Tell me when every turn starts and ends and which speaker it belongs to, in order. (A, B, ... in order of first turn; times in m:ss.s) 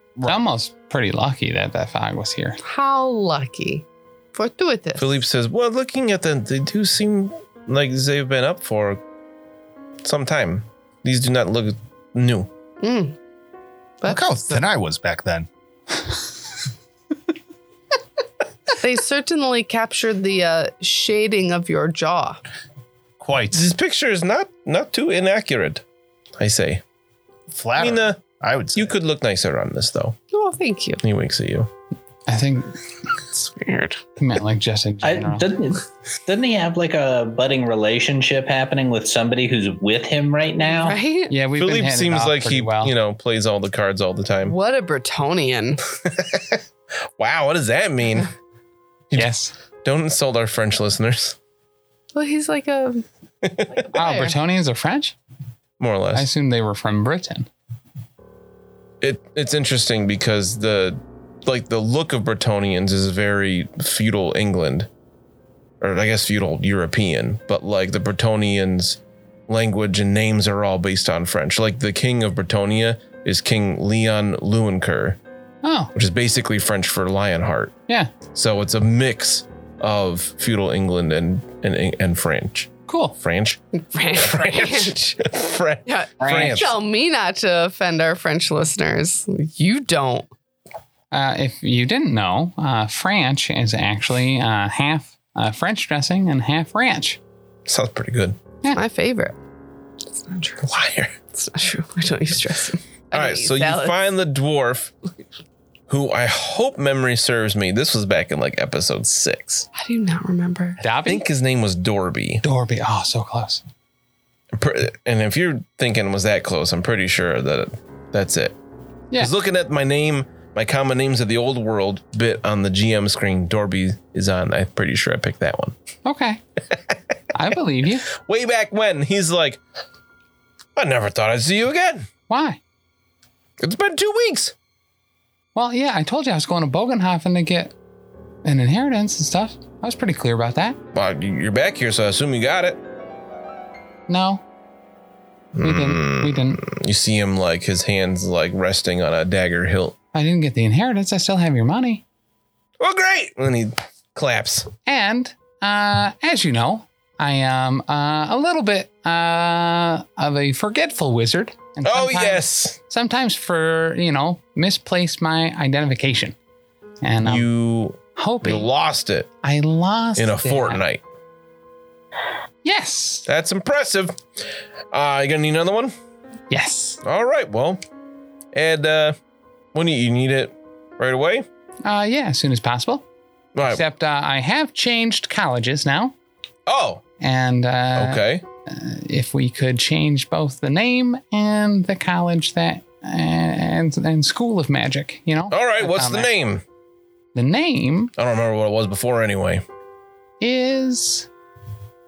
0:00.3-0:02.6 A
0:02.6-0:05.2 B
0:05.0-0:09.0 C
0:10.0-0:12.5 C
0:12.8-0:13.2 B
0:14.0-0:14.6 B
0:14.0-0:15.5 D
0:18.7-0:22.4 B
0:23.2-0:23.6 D
0:23.5-0:25.8 C
0:26.4-0:26.8 C
0:27.5-0:28.9 D
0:27.8-0:28.2 C
0:28.7-0:30.2 C
0:30.3-0:31.0 B
0:31.0-0:31.7 C
0:32.3-0:32.7 A
0:33.3-0:34.0 B
0:34.2-0:35.5 A
0:35.0-0:41.0 E
0:40.6-0:41.3 B
0:41.3-0:42.9 A
0:41.6-0:44.5 C
0:44.4-0:45.8 B
0:46.0-0:46.6 C
0:47.2-0:48.3 C
0:49.1-0:49.5 A
0:49.8-0:51.4 C
0:52.1-0:53.0 B
0:53.4-0:53.7 C
0:53.7-0:54.4 B
0:53.9-0:55.1 A
0:55.8-0:56.3 C
0:56.1-0:57.5 A
0:59.0-1:04.9 C
1:05.8-1:15.2 C
1:15.6-1:15.9 A
1:15.9-1:23.6 C
1:17.9-1:18.1 A
1:22.8-1:23.2 A
1:23.7-1:25.3 B
1:24.1-1:26.8 C
1:25.8-1:30.3 B
1:26.2-1:26.7 A
1:31.1-1:37.2 A
1:37.6-1:38.4 C
1:38.7-1:39.4 B
1:40.1-1:40.7 B
1:40.6-1:41.1 C
1:41.3-1:44.0 B
1:43.1-1:44.9 C
1:45.9-1:49.7 C
1:49.7-1:50.8 B
1:50.8-1:51.2 A
1:51.0-1:52.4 C
1:52.4-1:53.6 A
1:54.5-1:58.6 C
1:59.2-2:05.8 C
2:06.0-2:06.4 A
2:07.3-2:08.1 A
2:08.1-2:09.6 C
2:10.8-2:12.1 C
2:12.3-2:12.6 A
2:13.6-2:14.5 C
2:15.5-2:17.7 A
2:18.4-2:20.8 A
2:20.9-2:22.8 C
2:24.1-2:24.4 A
2:25.5-2:30.0 C
2:25.6-2:26.6 A
2:30.1-2:32.0 A
2:32.8-2:34.7 C
2:34.8-2:46.3 A
2:41.8-2:42.8 C
2:47.0-2:47.5 A
2:47.2-2:49.3 C
2:48.0-2:48.7 A
2:49.4-2:50.8 A
2:50.2-2:51.0 C
2:52.6-2:53.2 A
2:53.2-2:54.2 C
2:54.9-2:55.9 C
2:56.5-2:57.0 A
2:57.0-2:57.8 C
2:58.5-2:59.2 C
2:59.7-3:01.5 C
3:01.8-3:03.0 A
3:03.5-3:03.8 C
3:03.7-3:06.1 A
3:06.6-3:07.0 C
3:07.2-3:16.3 A
3:07.9-3:08.4 C
3:15.5-3:16.6 C
3:17.3-3:18.1 A
3:18.2-3:19.6 C
3:20.4-3:21.3 A